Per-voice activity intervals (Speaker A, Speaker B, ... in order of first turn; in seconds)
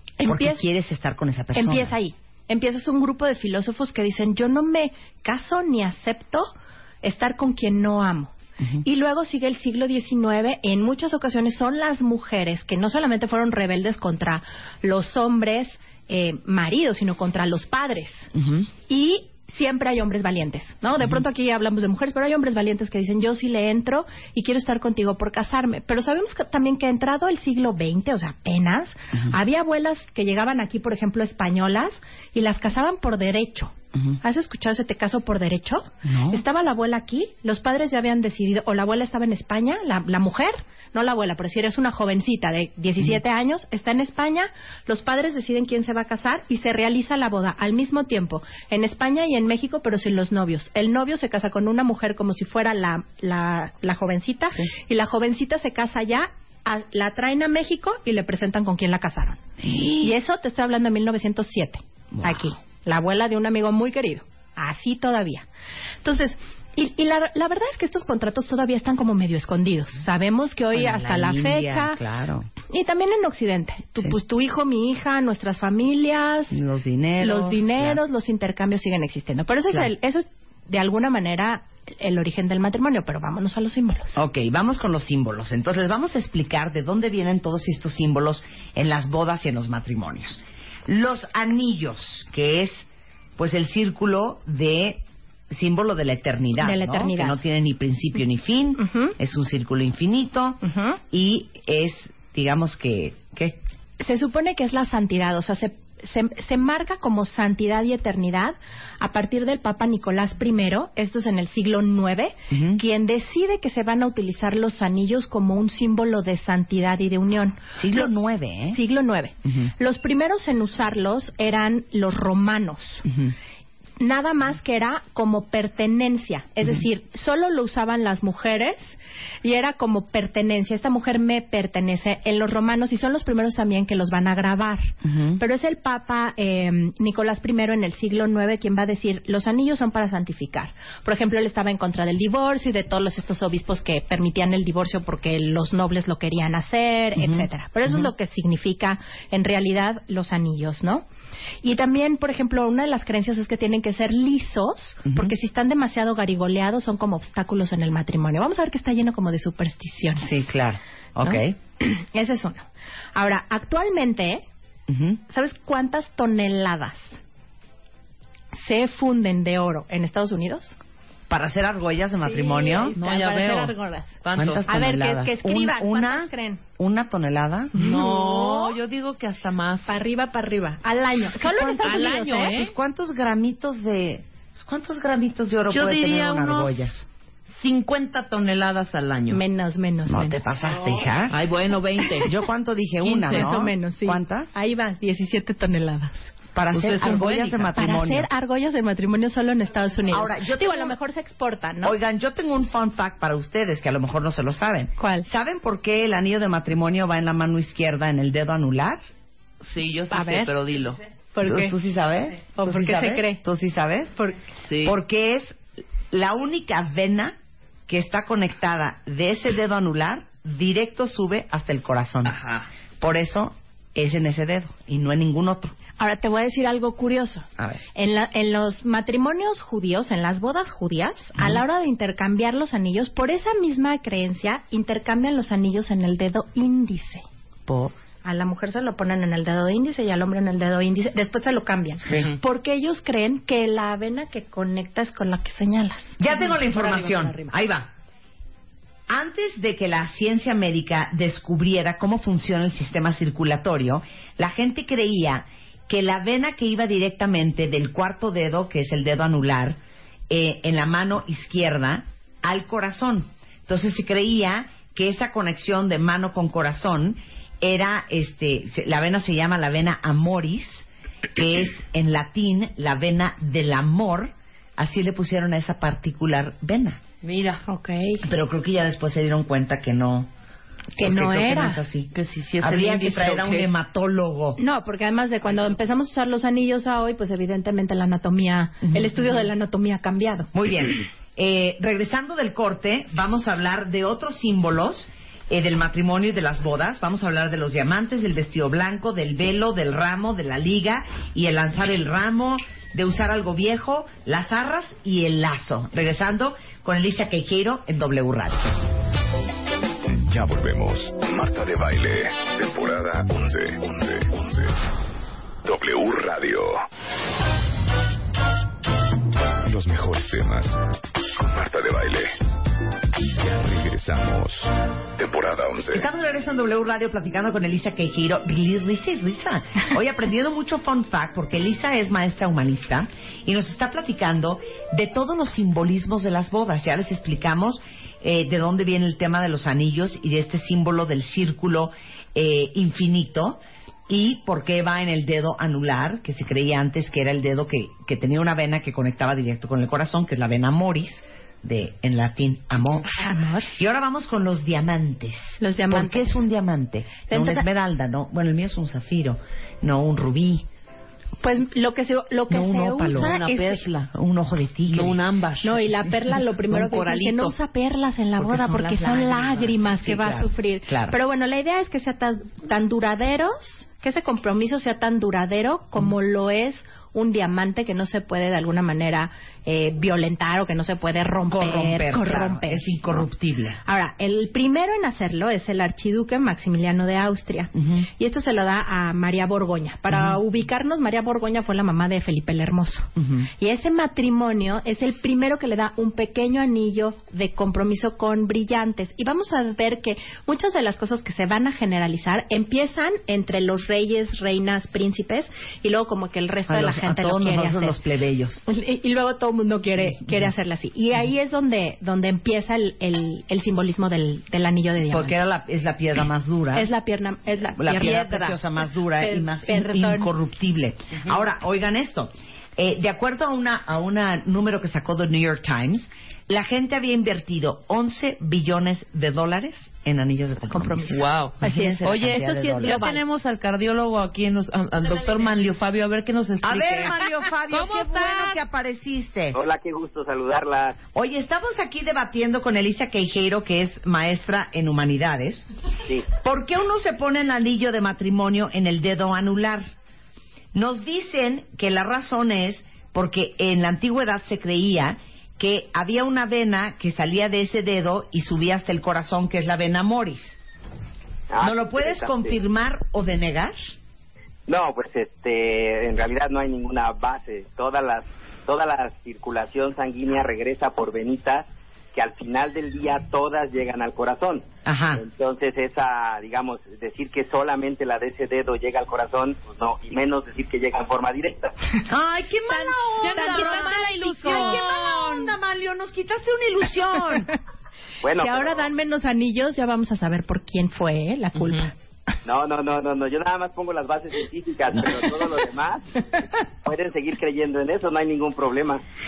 Speaker A: 0.2-0.6, 1.5-18.3, 18.9-59.4, 60.0-65.5, 66.0-72.0, 72.7-76.6, 77.2-84.2, 96.6-97.4, 98.8-99.1, 100.6-101.0, 104.0-118.1, 118.7-123.0, 124.0-151.0, 151.6-160.3, 161.2-164.4, 165.3-167.2, 168.5-170.8, 172.2-176.6, 177.7-178.8, 179.9-182.6, 189.3-190.4, 193.2-196.3, 197.8-201.9, 205.0-205.3, 210.1-210.5, 211.3-211.7, 212.5-213.4, 226.0-237.2, 238.2-247.5, 277.6-278.2, 280.9-281.8, 284.6-290.5, 353.1-353.8, 355.6-356.4, 357.3-357.7, 361.4-363.8, 365.6-382.8, 383.8-408.0, 408.6-415.4, 416.7-420.3, 430.7-433.2, 483.2-484.8, 488.4-491.9
Speaker B: 0.2-1.9, 18.3-18.7, 36.0-36.4, 59.6-60.1, 62.1-62.4, 70.7-72.5, 76.5-78.0, 84.1-103.6, 112.5-112.8, 117.8-118.8, 119.4-119.7, 123.0-123.3, 135.0-135.4, 147.2-147.5, 155.0-155.3, 160.2-161.5, 164.9-165.2, 171.3-172.9, 174.3-178.0, 181.4-187.0, 190.1-191.4, 192.2-194.5, 196.5-198.3, 200.1-200.9, 201.8-209.0, 211.4-214.2, 214.8-215.6, 216.1-217.3, 217.9-222.4, 223.0-225.7, 237.7-237.9, 242.0-242.3, 246.2-247.9, 249.1-259.8, 260.3-277.0, 278.2-280.3, 281.0-284.6, 288.8-289.1, 290.5-308.8, 325.9-353.2, 353.7-360.6, 362.5-363.3, 364.1-365.2, 368.4-371.1, 381.5-383.8, 387.7-388.1, 390.1-390.4, 393.1-393.5, 406.7-408.6, 410.2-410.4, 415.1-416.9, 417.8-433.1, 436.6-439.6, 441.1-445.7, 446.4-449.9, 450.7-460.6, 461.6-463.8, 474.8-475.2, 482.1-487.5
Speaker C: 173.0-174.6, 177.8-180.0, 181.8-182.7, 185.7-186.9, 187.5-189.4, 191.3-192.3, 193.0-193.4, 196.7-197.7, 209.6-211.0, 214.6-215.0, 222.2-222.7, 242.1-242.4, 277.2-277.6, 282.1-283.7, 363.1-364.1, 364.9-366.1, 366.7-367.5, 431.1-438.6, 482.9-485.6
Speaker D: 310.1-314.8, 315.6-316.8, 319.6-320.8, 321.3-322.4, 323.2-326.1
Speaker E: 439.5-441.0, 461.5-462.6, 464.7-481.7, 488.2-488.9, 492.4-499.0